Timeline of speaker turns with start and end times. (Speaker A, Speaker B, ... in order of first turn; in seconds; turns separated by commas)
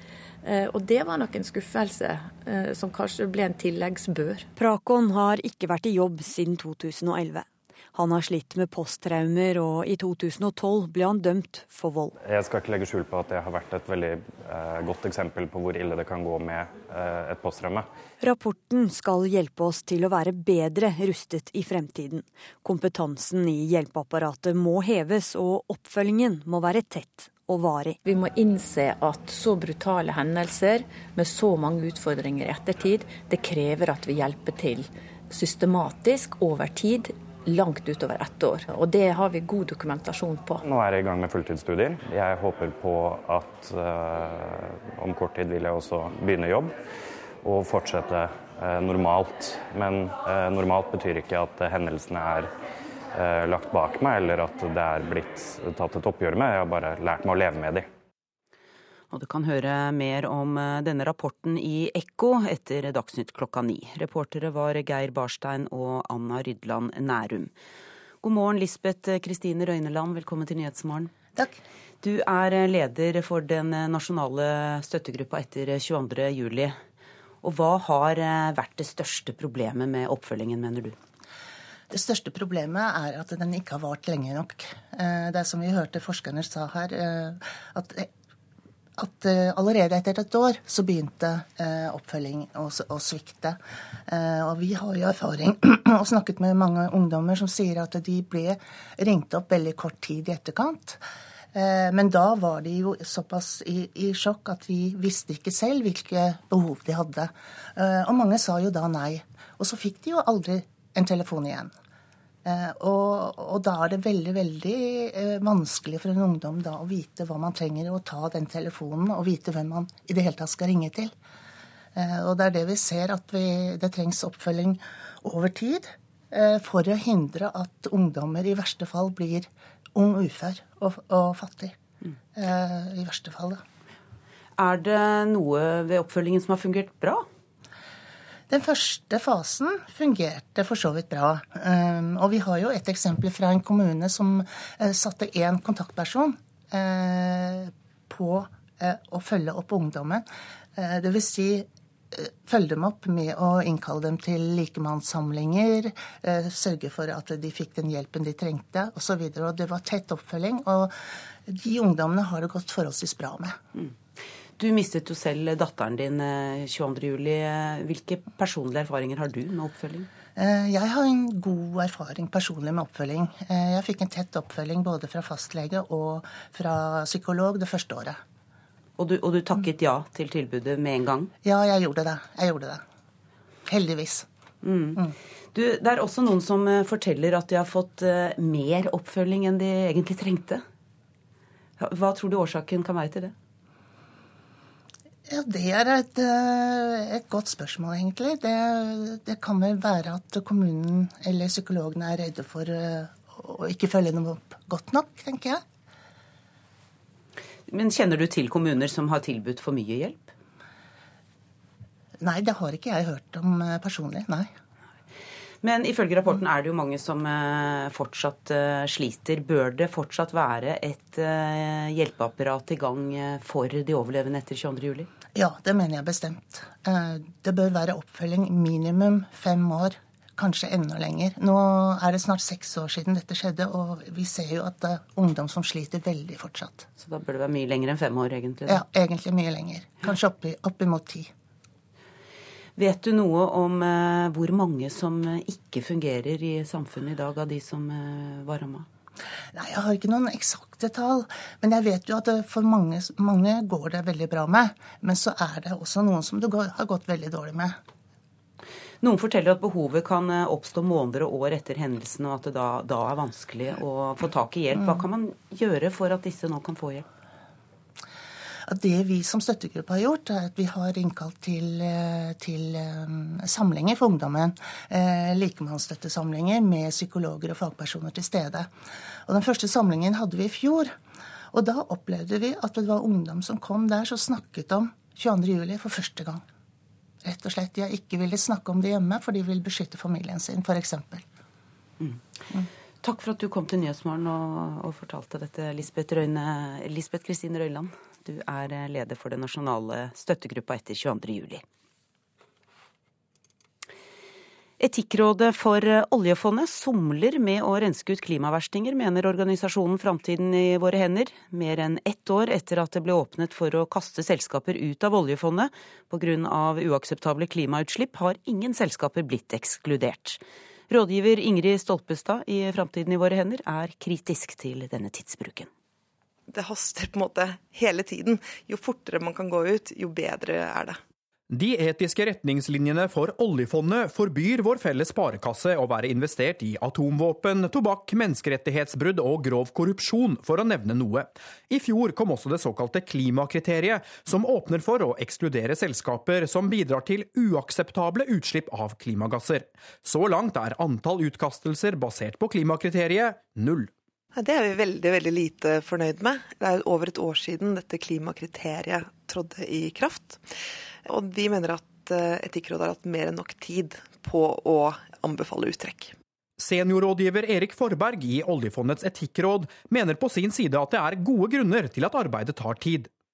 Speaker A: 0.4-4.5, Speaker B: 4.6-12.1, Speaker C: 12.2-17.9, Speaker B: 18.2-28.0, Speaker A: 28.1-40.6, Speaker C: 40.6-46.7, Speaker C: 47.4-52.5, Speaker C: 53.1-57.9, Speaker D: 59.1-67.5, Speaker D: 68.2-71.1, Speaker D: 72.0-76.8, Speaker D: 77.4-81.0, Speaker E: 81.9-88.1, Speaker E: 89.0-93.6, Speaker E: 94.1-101.0, Speaker E: 101.6-111.7, Speaker E: 112.5-121.1, Speaker E: 122.0-131.7, Speaker E: 132.4-133.6, Speaker D: 134.6-137.2, Speaker E: 138.5-150.2, Speaker E: 150.8-151.7, Speaker E: 152.5-160.9, Speaker E: 161.5-163.5, Speaker D: 164.6-170.1, Speaker E: 170.4-178.2, Speaker D: 179.0-181.3, Speaker E: 181.4-182.8, Speaker E: 183.7-184.2, Speaker D: 184.6-190.6, Speaker D: 191.8-193.3, Speaker E: 195.3-205.6, Speaker D: 207.7-210.3, Speaker E: 212.2-214.5, Speaker D: 215.6-225.1, Speaker E: 225.4-236.8, Speaker D: 237.0-238.8, Speaker E: 238.7-241.3, Speaker D: 242.8-248.9, Speaker E: 249.6-257.7, Speaker D: 259.0-267.1, Speaker E: 268.7-278.7, Speaker E: 279.3-280.9, Speaker E: 281.5-286.4, Speaker E: 287.2-291.2, Speaker D: 293.0-301.6, Speaker D: 304.8-325.7, Speaker F: 326.5-331.0, Speaker G: 331.5-353.9, Speaker F: 354.4-360.5, Speaker F: 361.1-366.1, Speaker G: 366.6-373.1